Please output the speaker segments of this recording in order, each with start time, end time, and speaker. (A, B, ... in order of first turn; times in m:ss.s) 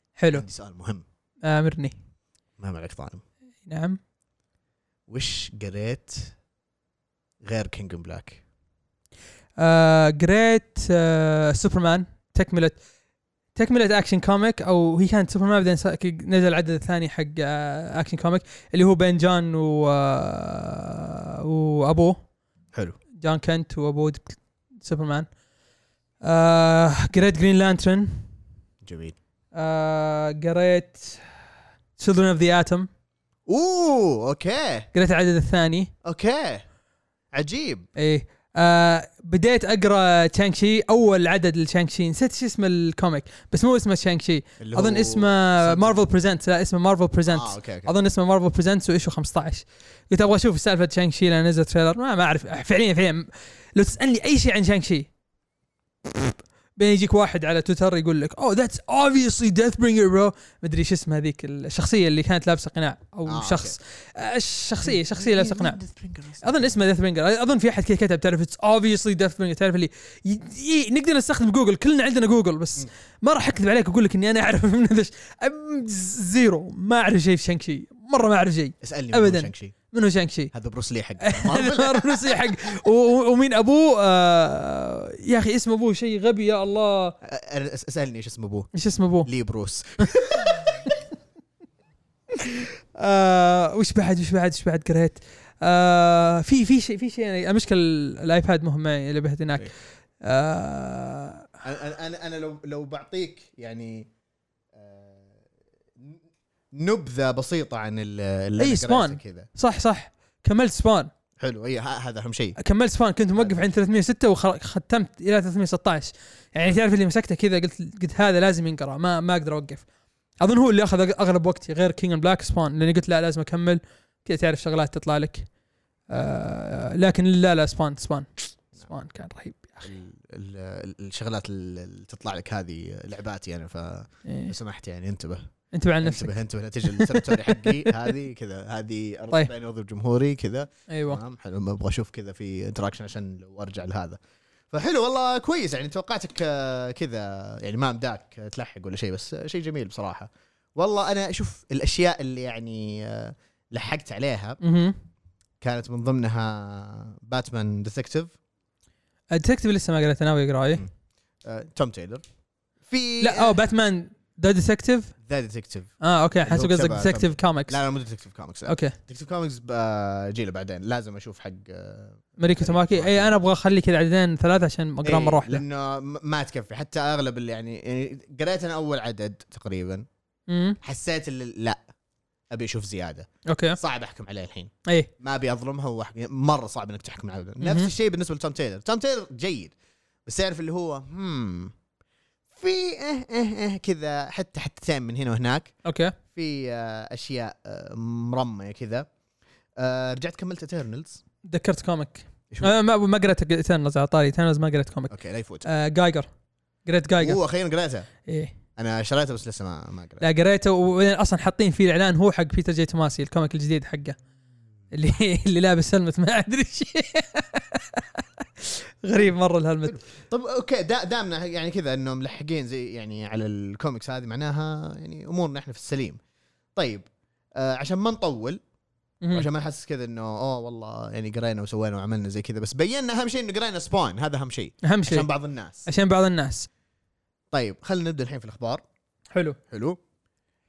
0:00.2-0:00.5 A
0:00.3-0:01.0 B
0:01.4-0:02.0 A
0:02.6-0:03.2 B
0:03.6-0:04.0 A
0:05.1-0:06.3 B
0:07.4-0:08.4 B
0:09.6-0:12.8 A
0:13.6-0:22.2 A
0:23.2-0:25.3 A
0:26.2-0:28.3 A
0:28.8-0:29.2 B
0:29.5-0:31.2 A
0:32.0-0:32.9 A
0:33.5-0:34.9 B
0:34.9-0:35.9 A
0:36.0-0:36.6 B
0:37.3-0:37.9 B
0:38.0-0:55.1 A
0:44.6-0:46.0 B
0:47.3-0:47.9 B
0:56.1-1:05.8 A
1:03.3-1:03.8 B
1:04.8-1:06.8 B
1:06.4-1:20.5 A
1:18.8-1:19.8 B
1:20.5-1:22.7 B
1:21.2-1:27.2 A
1:27.2-1:28.7 B
1:28.7-1:29.3 A
1:29.3-1:30.9 B
1:30.4-1:31.0 A
1:32.3-1:39.7 A
1:40.2-1:41.5 A
1:41.6-1:44.1 B
1:44.8-1:45.3 B
1:46.7-1:49.5 B
1:48.6-1:51.1 A
1:51.4-1:52.6 B
1:52.6-1:59.8 A
1:53.4-1:53.6 B
2:00.4-2:05.5 A
2:06.1-2:09.9 A
2:09.8-2:15.5 B
2:14.2-2:14.5 A
2:15.7-2:16.3 A
2:16.0-2:24.2 B
2:16.9-2:18.0 A
2:20.9-2:21.2 A
2:24.7-2:34.6 B
2:34.6-2:35.0 A
2:35.6-2:38.4 B
2:39.3-2:40.8 A
2:41.4-2:42.2 B
2:42.9-2:43.6 B
2:43.2-2:45.1 A
2:45.2-2:45.9 B
2:46.0-2:47.8 A
2:46.4-2:53.4 B
2:48.6-2:49.0 A
2:52.4-2:55.6 A
2:55.0-3:00.0 B
3:00.5-3:00.8 A
3:00.8-3:01.8 B
3:02.5-3:09.7 B
3:03.5-3:03.8 A
3:07.6-3:07.9 A
3:10.3-3:11.7 B
3:12.5-3:15.7 B
3:15.8-3:16.2 A
3:16.3-3:19.1 B
3:19.8-3:21.2 B
3:21.4-3:25.1 A
3:22.5-3:22.8 B
3:25.1-3:25.7 B
3:25.6-3:26.3 A
3:26.8-3:27.4 A
3:27.2-3:28.1 B
3:28.3-3:28.6 A
3:28.8-3:30.2 B
3:30.2-3:34.2 A
3:34.9-3:40.0 A
3:39.8-3:46.2 B
3:46.8-3:48.6 B
3:49.3-3:55.9 B
3:54.8-3:55.3 A
3:55.8-3:56.7 A
3:57.5-3:58.8 B
3:59.3-3:59.6 A
3:59.7-4:00.0 B